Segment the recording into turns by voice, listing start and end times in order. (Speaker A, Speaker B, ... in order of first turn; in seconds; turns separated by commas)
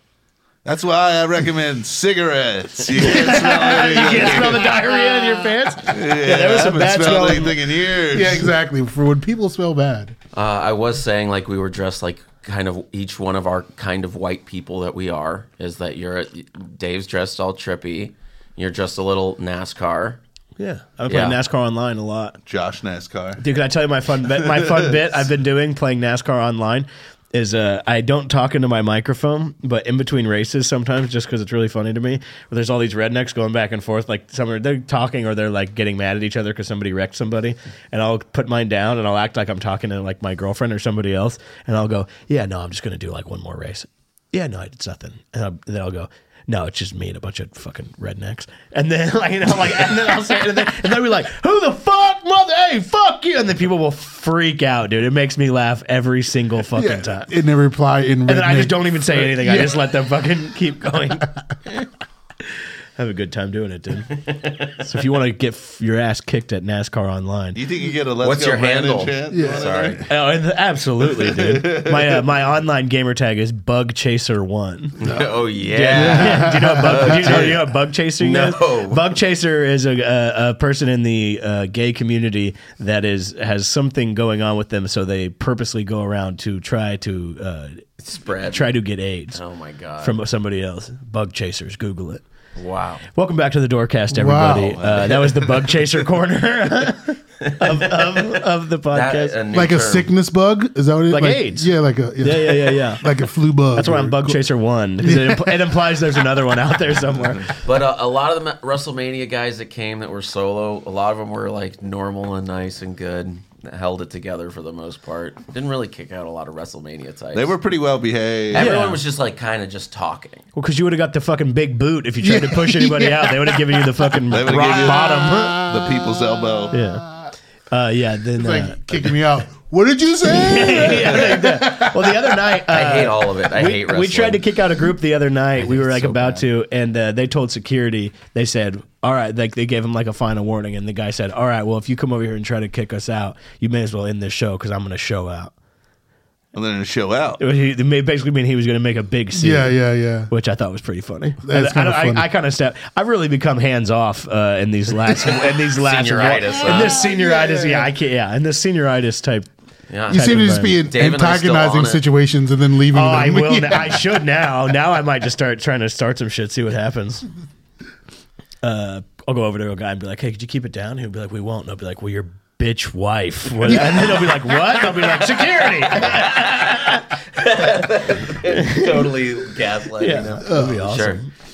Speaker A: 0.7-4.8, Speaker B: 2.8-4.8, Speaker C: 3.0-7.5, Speaker A: 5.8-8.5, Speaker D: 8.1-10.2, Speaker B: 10.3-20.2, Speaker C: 20.6-22.4, Speaker B: 21.1-21.4, Speaker A: 22.5-23.4, Speaker C: 23.4-57.3, Speaker A: 24.4-25.0, Speaker D: 56.7-59.8, Speaker C: 58.3-61.3, Speaker C: 63.0-64.2, Speaker B: 64.2-64.9, Speaker C: 64.8-67.6, Speaker A: 67.5-70.1, Speaker B: 68.2-70.1, Speaker D: 69.3-69.7, Speaker C: 70.1-75.0, Speaker A: 71.0-72.2, Speaker B: 75.0-77.6, Speaker C: 75.7-87.8, Speaker D: 75.9-77.4, Speaker A: 76.9-77.6, Speaker B: 78.2-79.1, Speaker B: 88.0-88.7, Speaker C: 88.5-89.4, Speaker B: 89.3-90.2, Speaker C: 90.0-92.2, Speaker B: 92.6-93.0, Speaker C: 93.1-99.3, Speaker D: 94.1-94.8, Speaker A: 94.7-95.8, Speaker B: 97.4-100.1, Speaker D: 99.5-104.4, Speaker C: 101.1-101.7, Speaker C: 102.2-103.0, Speaker C: 103.8-107.5, Speaker D: 105.0-105.8, Speaker B: 107.6-117.5, Speaker A: 117.3-118.7, Speaker B: 118.5-120.4, Speaker C: 118.5-119.0, Speaker C: 120.5-125.6, Speaker D: 122.2-127.3, Speaker A: 124.3-126.8, Speaker C: 126.7-127.0, Speaker C: 127.7-129.1, Speaker D: 128.3-132.5, Speaker C: 130.2-145.5, Speaker B: 132.7-134.4, Speaker A: 135.7-136.4, Speaker A: 146.5-147.4, Speaker C: 147.4-149.8, Speaker D: 149.4-150.3, Speaker C: 150.3-159.5, Speaker D: 151.4-152.3, Speaker B: 155.7-157.0, Speaker D: 156.7-157.9, Speaker B: 159.9-162.0, Speaker D: 160.1-164.2, Speaker C: 160.1-160.8, Speaker C: 162.9-167.2, Speaker C: 168.6-177.1, Speaker D: 173.6-174.6, Speaker B: 175.8-181.2, Speaker C: 178.4-179.1, Speaker C: 180.0-181.3, Speaker D: 180.4-180.8